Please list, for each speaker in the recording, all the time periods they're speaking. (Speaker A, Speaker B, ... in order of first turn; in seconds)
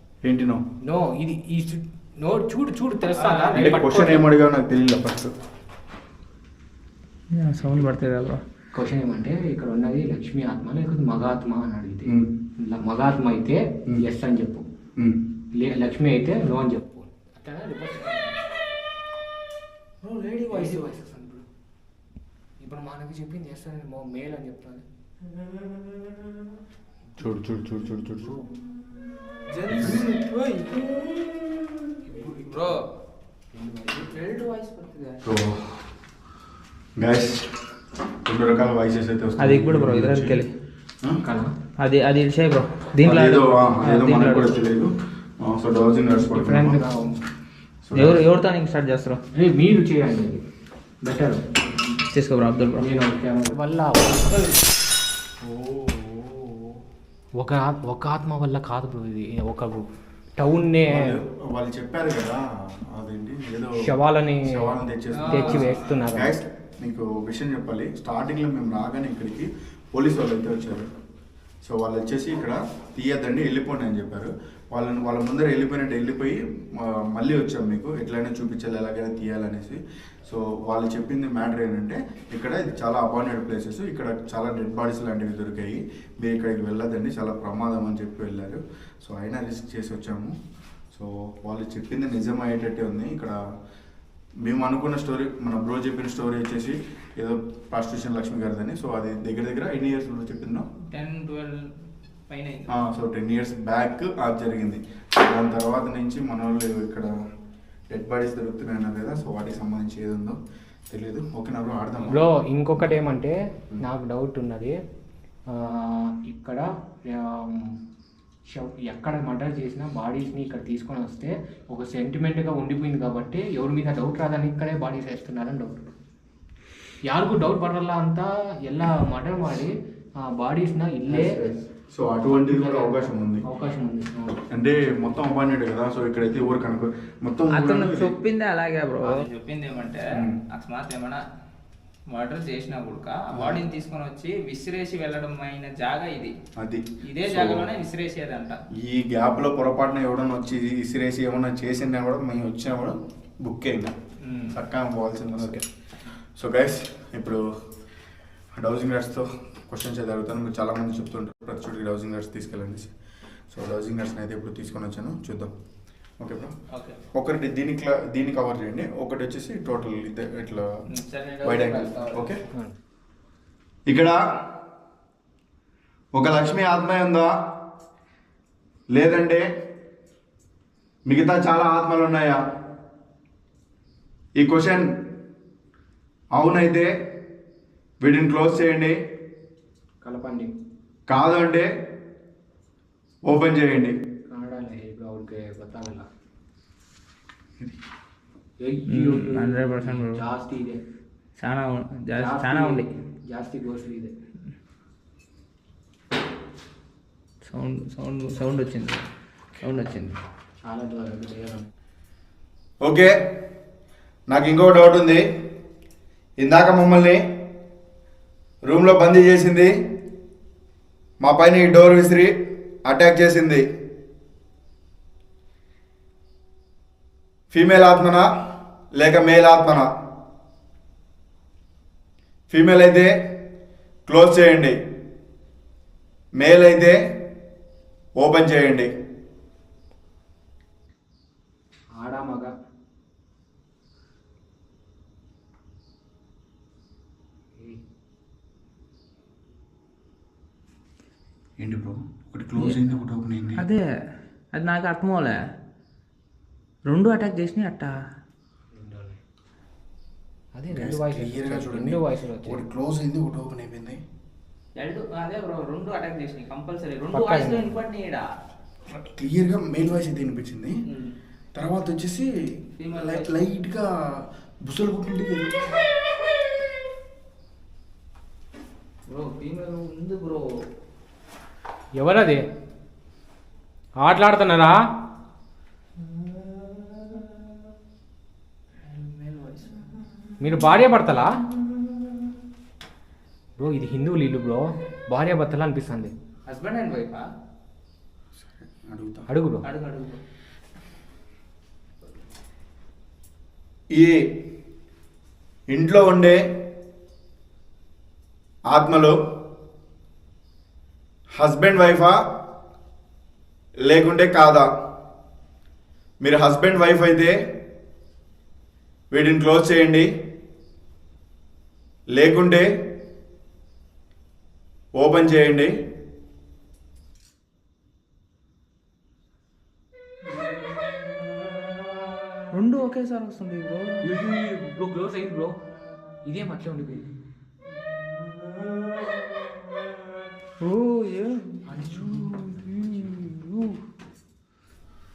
Speaker A: 0.2-0.6, 3.5-5.3, 27.2-28.3, 29.7-30.1, 35.2-35.9, 37.0-37.5, 38.2-40.4, 43.0-46.8, 47.9-48.2, 60.9-63.8, 64.4-70.9, 71.7-90.3, 90.9-93.3, 94.4-100.7, 102.7-107.1, 107.9-110.4, 110.9-112.2, 131.1-133.4, 134.5-138.1, 140.1-140.4, 143.3-143.7, 146.6-147.7, 148.8-153.9, 154.5-155.6, 156.4-157.4, 158.5-162.9, 163.5-165.5, 166.2-166.5, 167.1-170.7, 171.4-172.4, 173.9-174.2, 176.1-177.3, 178.9-179.5, 181.1-182.4, 184.4-185.0, 186.3-186.9, 188.0-189.0, 191.1-191.7, 193.2-194.0, 212.8-213.2, 214.3-215.2, 216.4-217.4, 218.6-219.7, 221.2-223.6, 227.5-228.3, 228.9-229.9, 232.5-233.1, 234.1-234.8, 236.3-237.0, 238.2-238.9, 251.6-253.7, 260.7-264.0, 268.9-270.8, 271.5-272.3, 272.9-273.9, 274.6-275.7, 298.4-299.3, 303.9-304.4, 305.7-306.4, 308.7-309.2, 311.3-312.2, 313.8-314.7, 316.2-317.4, 319.1-320.1, 322.1-322.9, 324.9-325.8
Speaker B: 0.8-4.2, 8.7-14.6, 15.6-18.3, 20.5-21.4, 22.6-24.8, 27.1-28.5, 32.1-32.7, 33.5-34.1, 41.2-41.5, 46.0-47.2, 49.3-50.4, 51.0-51.4, 52.8-54.5, 55.7-56.3, 57.4-59.8, 60.4-61.2, 63.8-64.7, 65.3-66.4, 112.0-114.7, 115.5-117.8, 118.5-125.9, 127.1-129.7, 130.3-131.5, 132.2-134.4, 139.0-139.3, 190.0-190.5, 194.3-196.1, 198.6-200.8, 202.2-204.1, 210.6-211.7, 241.9-242.5, 258.7-259.2, 260.5-262.6, 267.1-267.8, 282.0-282.4, 284.0-284.8, 290.4-291.3, 293.6-296.1, 299.3-299.6, 334.0-335.6, 336.2-337.1, 341.6-343.3
Speaker C: 3.1-3.8, 7.3-8.4, 18.0-18.3, 20.0-20.9, 29.5-31.3, 32.1-32.8, 34.1-35.2, 39.4-40.5, 41.8-44.6, 47.9-49.2, 52.1-52.9, 65.2-65.9, 100.9-101.6, 102.3-102.7, 137.5-141.2, 142.1-146.3, 147.0-148.6, 154.2-154.6, 166.7-167.0, 170.9-172.3, 198.9-200.2, 201.4-202.9, 207.5-209.0, 209.6-210.2, 252.6-252.8, 253.6-253.8, 254.5-255.4, 256.9-258.0, 264.8-268.2, 270.9-271.1, 272.8-273.3, 279.1-280.4, 286.1-287.3, 288.8-290.0, 296.5-297.2, 299.6-300.2, 332.5-334.1, 340.6-343.8